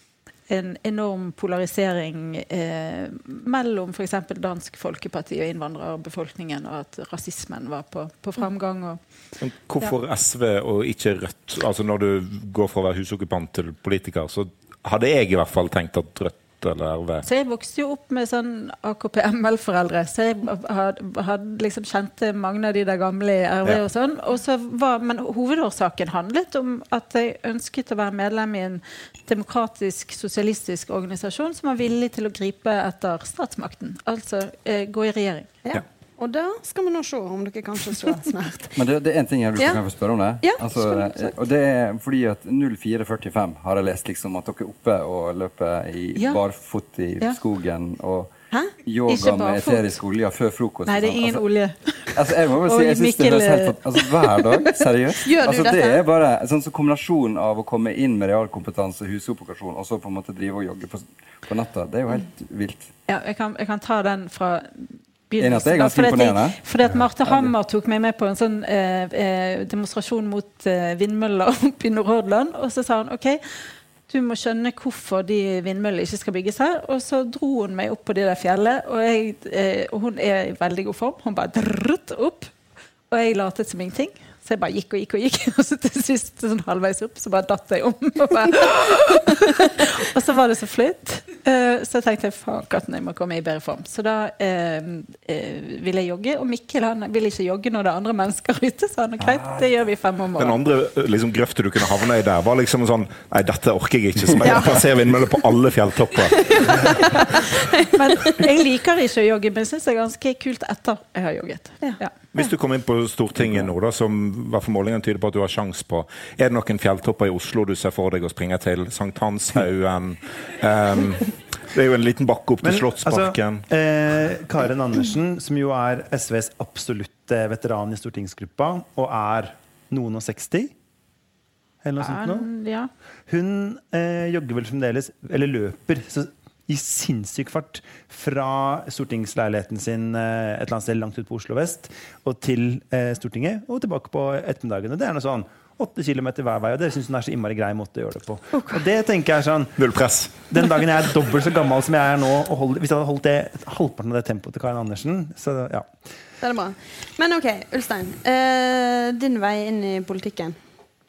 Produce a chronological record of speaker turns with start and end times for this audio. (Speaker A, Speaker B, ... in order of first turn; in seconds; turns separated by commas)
Speaker A: 0.5-9.0, Speaker B: 9.4-17.2, Speaker A: 17.2-35.5, Speaker C: 35.6-38.8, Speaker D: 38.8-48.3, Speaker C: 40.4-41.3, Speaker A: 46.2-46.4, Speaker D: 48.8-51.5, Speaker A: 49.1-50.0, Speaker A: 50.9-54.0, Speaker D: 52.1-62.9, Speaker C: 55.2-56.0, Speaker A: 63.1-82.5, Speaker D: 65.4-66.6, Speaker D: 67.2-67.5, Speaker A: 83.1-100.6, Speaker B: 100.4-107.3, Speaker C: 104.4-104.8, Speaker C: 106.2-108.3, Speaker A: 107.9-112.1, Speaker C: 111.8-112.5, Speaker B: 112.3-123.6, Speaker E: 122.6-130.7, Speaker E: 131.8-132.5, Speaker A: 132.0-132.9, Speaker E: 133.3-155.9, Speaker C: 148.5-148.8, Speaker B: 149.8-150.4, Speaker C: 156.4-160.6